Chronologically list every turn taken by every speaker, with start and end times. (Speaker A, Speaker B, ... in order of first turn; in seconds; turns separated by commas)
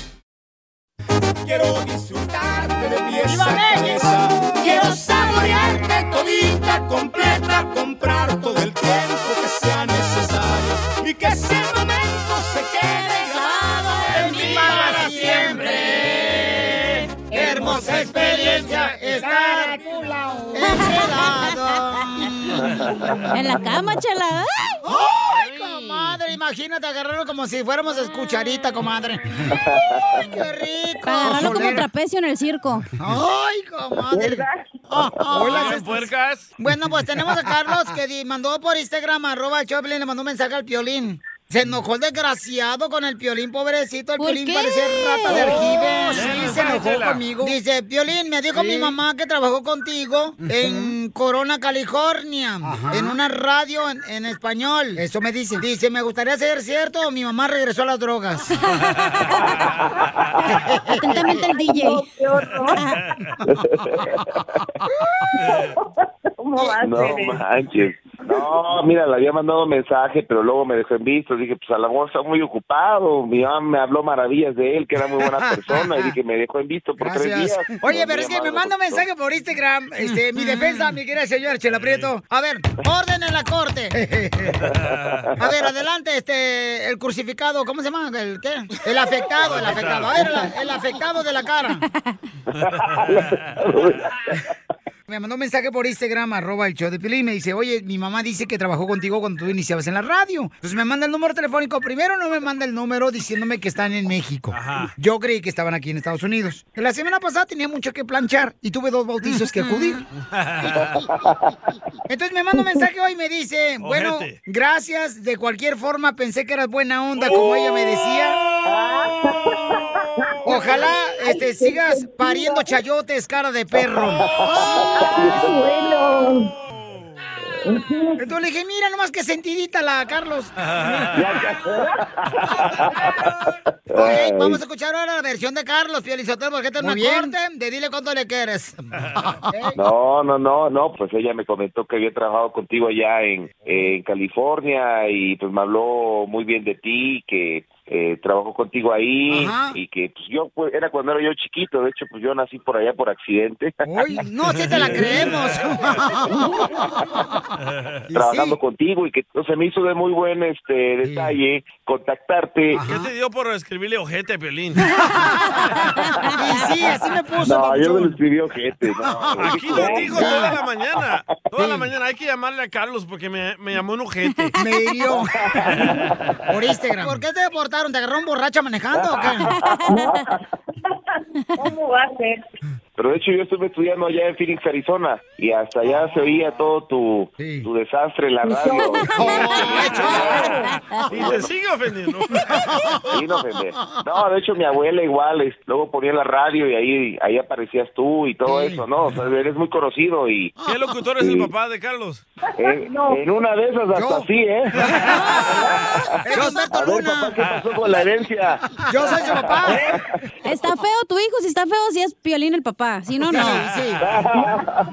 Speaker A: 1.4-14.7, Speaker B: 3.2-4.8, Speaker C: 4.6-5.4, Speaker C: 12.9-16.8, Speaker B: 14.2-22.8, Speaker A: 17.3-19.8, Speaker C: 20.6-22.3, Speaker D: 22.7-23.2, Speaker C: 23.3-24.8, Speaker B: 24.8-29.5, Speaker D: 29.5-30.3, Speaker B: 30.2-31.9, Speaker C: 31.0-32.9, Speaker B: 33.0-58.5, Speaker E: 34.1-34.6, Speaker F: 35.3-36.5, Speaker C: 44.2-46.3, Speaker C: 58.5-59.6, Speaker F: 59.5-59.7, Speaker B: 60.5-61.3, Speaker C: 60.9-62.1, Speaker E: 61.4-62.8, Speaker C: 62.7-63.0, Speaker D: 63.5-64.2, Speaker E: 65.4-65.9, Speaker F: 65.4-65.7, Speaker E: 66.4-67.4, Speaker D: 66.8-79.1, Speaker B: 75.5-75.9, Speaker B: 77.0-84.7, Speaker F: 81.7-82.1, Speaker F: 84.6-85.2, Speaker B: 85.4-91.8, Speaker F: 89.4-90.3, Speaker D: 92.5-94.4, Speaker F: 92.7-93.3, Speaker B: 95.1-110.0, Speaker F: 104.5-104.9, Speaker C: 109.6-110.0, Speaker F: 110.3-111.0, Speaker D: 110.7-111.5, Speaker B: 112.1-118.4, Speaker F: 113.8-114.4, Speaker D: 118.7-119.2, Speaker E: 118.7-122.7, Speaker B: 120.4-124.3, Speaker D: 124.0-125.7, Speaker E: 124.5-126.5, Speaker F: 126.7-127.2, Speaker E: 127.6-128.2, Speaker B: 128.2-130.5, Speaker F: 130.6-131.1, Speaker D: 131.1-133.3, Speaker D: 133.9-134.6, Speaker B: 133.9-138.8, Speaker B: 139.5-139.8, Speaker D: 139.7-153.7, Speaker B: 149.3-149.8, Speaker B: 153.8-157.4, Speaker F: 154.7-155.6, Speaker D: 154.7-155.3, Speaker B: 158.1-158.6, Speaker D: 158.1-162.8, Speaker B: 161.0-161.3, Speaker B: 162.7-163.1, Speaker F: 162.8-165.0, Speaker B: 164.9-165.7, Speaker C: 166.0-166.3, Speaker B: 166.3-168.2, Speaker D: 167.4-170.6, Speaker B: 169.0-170.5, Speaker F: 169.3-174.5, Speaker B: 171.6-171.9, Speaker B: 174.6-175.3, Speaker D: 175.2-176.1, Speaker F: 175.7-176.1, Speaker B: 176.5-179.5, Speaker D: 178.9-180.4, Speaker C: 179.5-180.2, Speaker E: 181.6-182.4, Speaker D: 183.0-191.5, Speaker B: 187.4-187.7, Speaker C: 188.7-191.1, Speaker B: 189.1-190.5, Speaker F: 189.7-192.9, Speaker D: 193.1-200.5, Speaker B: 198.4-198.8, Speaker F: 200.6-202.2, Speaker D: 201.2-201.5, Speaker D: 202.6-210.0, Speaker E: 202.6-203.4, Speaker B: 203.9-205.6, Speaker C: 205.0-206.7, Speaker B: 206.2-207.3, Speaker B: 208.9-209.8, Speaker C: 210.4-213.7, Speaker B: 213.3-214.0, Speaker D: 214.0-214.8, Speaker E: 214.3-214.7